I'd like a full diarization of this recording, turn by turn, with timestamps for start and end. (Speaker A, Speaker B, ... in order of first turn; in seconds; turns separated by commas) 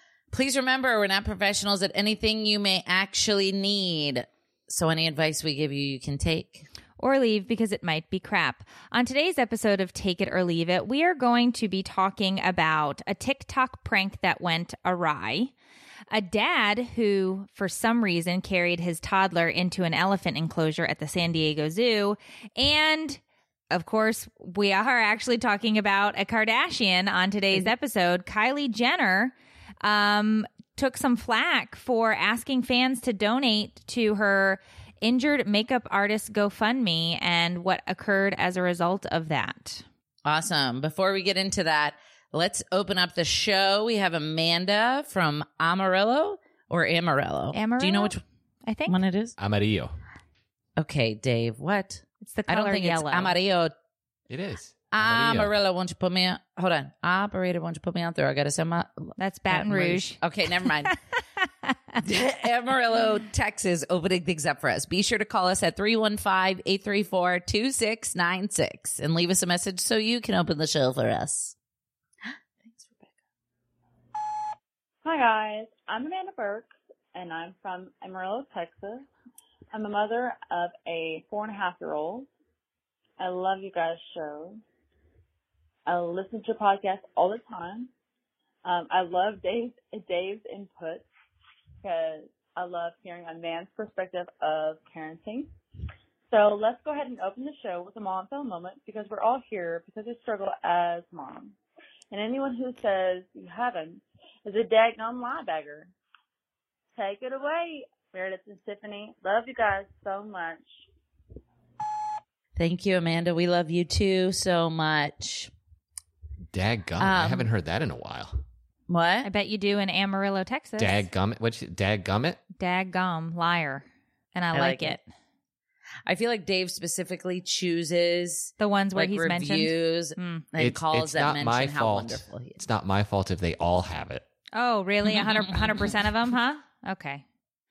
Speaker A: 0.3-6.7, Speaker B: 7.0-15.5, Speaker B: 16.1-39.9, Speaker A: 40.2-48.2, Speaker B: 47.5-49.0, Speaker A: 48.9-49.4, Speaker C: 49.4-49.9, Speaker A: 50.8-53.7, Speaker B: 52.2-53.3, Speaker C: 54.3-55.5, Speaker A: 54.9-61.0, Speaker B: 59.2-62.0, Speaker A: 62.0-71.5, Speaker A: 72.6-73.1, Speaker D: 75.0-79.1, Speaker D: 79.7-82.3, Speaker D: 83.2-84.6, Speaker D: 85.9-87.9, Speaker D: 88.6-91.1, Speaker D: 91.8-95.5, Speaker D: 96.3-101.6, Speaker D: 102.1-105.9, Speaker D: 107.0-110.7, Speaker A: 112.6-115.5, Speaker C: 116.5-118.4, Speaker A: 117.0-117.5, Speaker A: 118.9-119.3, Speaker B: 119.2-121.1, Speaker C: 120.8-122.4, Speaker B: 122.6-125.0, Speaker A: 124.5-125.0, Speaker A: 126.1-132.6, Speaker B: 128.6-130.5, Speaker C: 130.6-134.2, Speaker B: 134.6-137.2